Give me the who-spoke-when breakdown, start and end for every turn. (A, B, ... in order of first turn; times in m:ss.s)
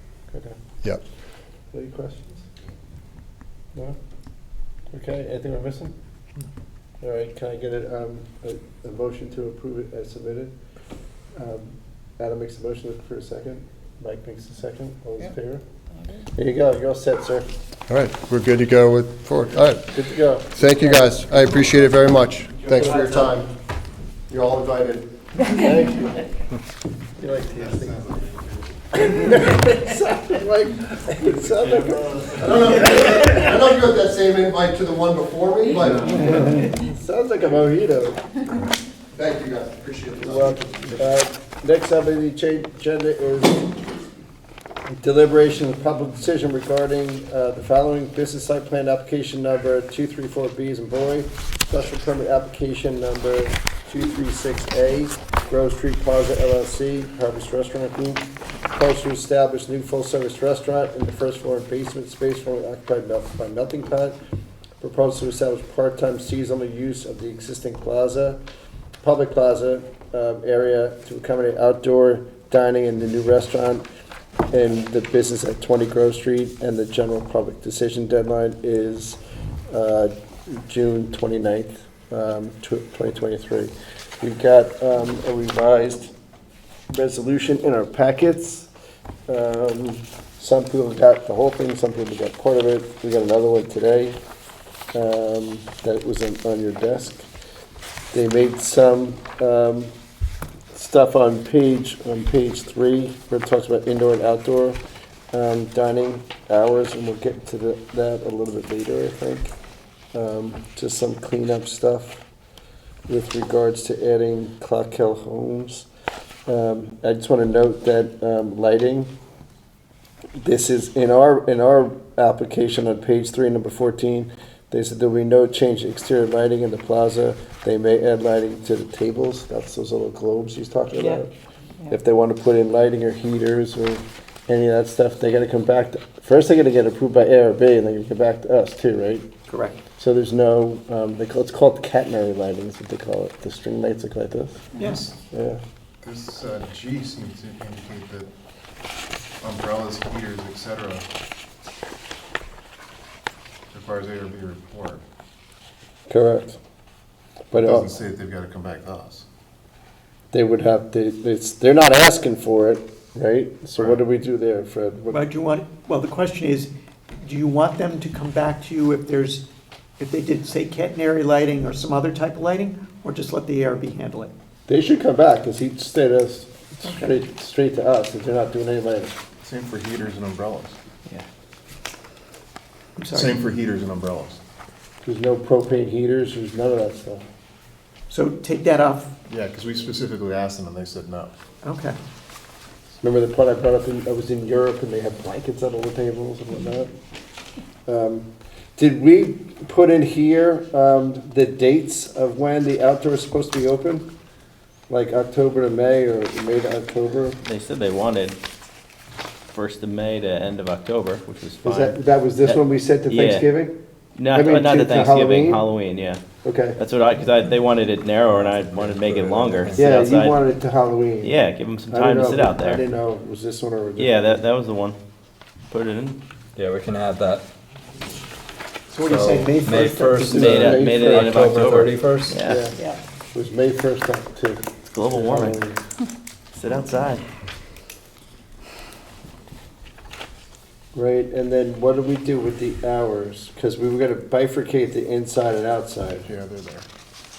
0:00.3-0:00.6 A
0:01.7-0:02.5 A
0:04.9-0:05.9 A
0:07.0-0:10.5 A
0:11.3-0:15.6 A
0:16.3-0:17.5 A
0:17.9-0:19.9 B
0:19.9-0:21.2 A
0:20.5-0:23.5 B
0:22.7-0:23.2 A
0:24.3-0:25.1 B
0:25.4-0:26.2 A
0:27.2-0:28.0 A
0:27.7-0:28.2 B
0:28.9-0:32.3 A
0:32.3-0:36.6 B
0:36.2-0:38.2 A
0:39.1-0:40.9 B
0:40.2-0:43.6 A
0:44.9-1:04.2 A
1:04.8-1:08.4 A
1:09.0-1:13.8 A
1:14.5-1:19.2 A
1:19.7-1:26.1 A
1:26.9-1:28.7 A
1:29.3-1:34.2 A
1:34.9-1:37.3 A
1:38.1-1:39.9 A
1:40.7-1:44.8 A
1:45.3-1:49.5 A
1:50.1-1:52.2 A
1:53.1-1:55.9 A
1:56.5-1:59.1 A
2:00.4-2:11.3 A
2:11.9-2:19.3 A
2:19.5-2:19.8 C
2:20.0-2:24.6 A
2:24.8-2:25.1 C
2:24.8-2:25.1 D
2:25.3-2:25.6 A
2:26.0-2:28.3 D
2:29.4-2:31.0 D
2:33.7-2:35.0 D
2:36.1-2:36.6 A
2:37.5-2:37.9 A
2:37.7-2:39.2 D
2:40.3-2:45.2 A
2:45.1-2:46.7 C
2:47.2-2:49.4 C
2:50.0-2:54.3 C
2:54.7-2:59.1 A
2:56.8-2:57.1 C
2:59.4-3:00.7 D
3:03.0-3:03.4 C
3:03.1-3:04.4 D
3:05.0-3:07.2 A
3:08.1-3:09.1 C
3:09.3-3:11.3 D
3:11.6-3:12.0 C
3:13.0-3:16.9 A
3:17.8-3:24.0 A
3:24.9-3:27.4 A
3:27.4-3:28.4 E
3:29.5-3:33.4 E
3:31.6-3:33.8 A
3:34.2-3:36.2 E
3:34.3-3:35.6 A
3:36.4-3:36.8 A
3:36.8-3:40.4 E
3:38.3-3:39.9 F
3:39.8-3:41.3 A
3:41.2-3:42.8 E
3:41.9-3:44.4 A
3:44.0-3:45.0 E
3:45.7-3:46.2 E
3:46.6-3:47.4 F
3:48.9-3:50.3 C
3:49.0-3:52.4 F
3:50.0-3:51.3 A
3:50.4-3:52.6 E
3:52.4-3:52.8 A
3:53.3-3:55.8 A
3:54.9-3:55.6 E
3:56.5-3:57.2 E
4:00.9-4:06.3 A
4:06.3-4:06.8 D